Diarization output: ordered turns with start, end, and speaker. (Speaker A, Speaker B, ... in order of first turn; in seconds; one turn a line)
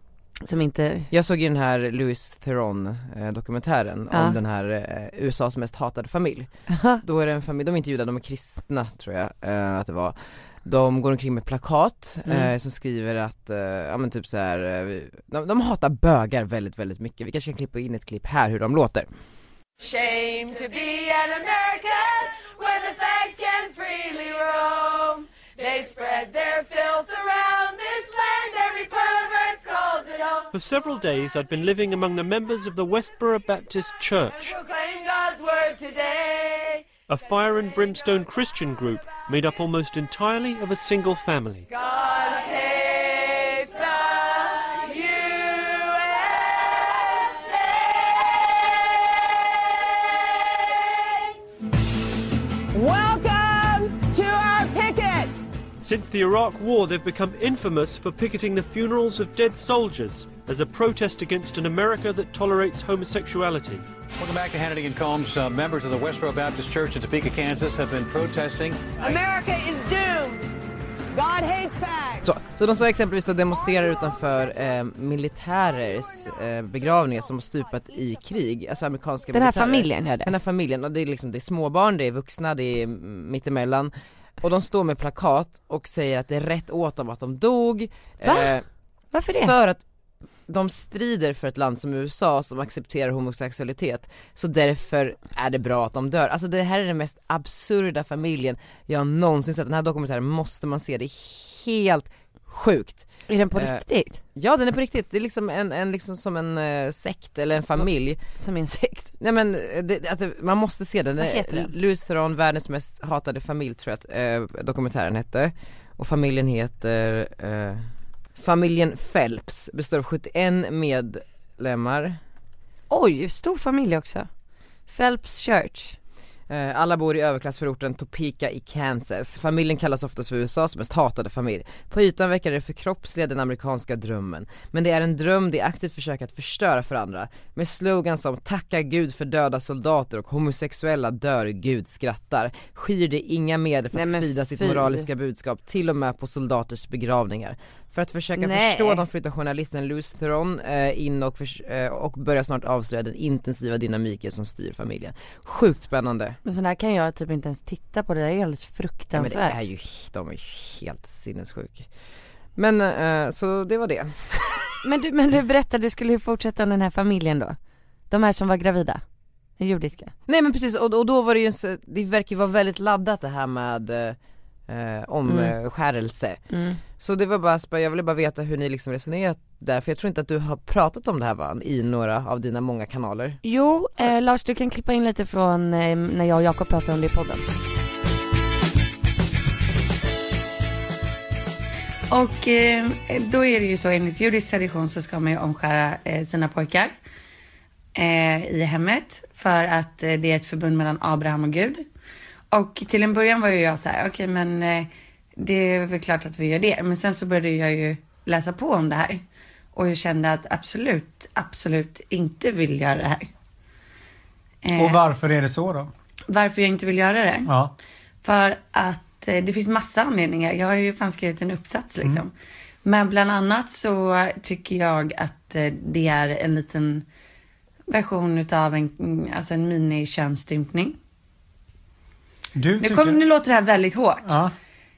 Speaker A: 0.4-1.1
Speaker B: 1.1-6.5
Speaker A: 6.7-7.0
Speaker B: 7.0-19.1
Speaker C: 19.8-30.5
Speaker D: 30.5-34.6
Speaker C: 34.4-36.9
Speaker D: 37.1-41.7
Speaker C: 41.7-51.4
Speaker C: 52.7-55.4
Speaker D: 55.8-63.9
Speaker E: 64.2-68.9
Speaker C: 69.0-70.5
Speaker C: 71.1-72.3
Speaker B: 72.2-88.7
Speaker A: 79.3-80.3
Speaker A: 88.2-88.5
Speaker A: 89.1-89.5
Speaker B: 89.4-89.8
Speaker B: 90.5-103.8
Speaker A: 103.3-104.2
Speaker B: 104.3-108.2
Speaker A: 108.4-109.1
Speaker B: 109.2-122.2
Speaker A: 111.2-111.7
Speaker A: 122.9-124.3
Speaker A: 124.9-126.0
Speaker B: 126.5-156.4
Speaker A: 143.9-145.1
Speaker A: 148.4-149.1
Speaker A: 156.4-159.6
Speaker B: 159.2-161.9
Speaker B: 162.6-164.7
Speaker A: 164.8-167.6
Speaker A: 168.1-169.0
Speaker A: 169.6-170.1
Speaker B: 170.3-174.2
Speaker B: 174.7-176.4
Speaker A: 175.3-175.5
Speaker A: 176.5-176.8
Speaker B: 177.0-183.4
Speaker A: 183.4-187.4
Speaker F: 192.1-196.9
Speaker F: 198.0-201.8
Speaker F: 202.5-204.9
Speaker F: 205.4-209.2
Speaker F: 209.8-213.3
Speaker F: 214.7-215.0
Speaker G: 214.7-215.9
Speaker F: 216.3-217.5
Speaker G: 217.5-217.7
Speaker F: 218.2-222.3
Speaker F: 222.8-227.1
Speaker F: 227.9-231.0
Speaker G: 232.6-233.2
Speaker F: 232.8-234.4
Speaker G: 234.3-234.5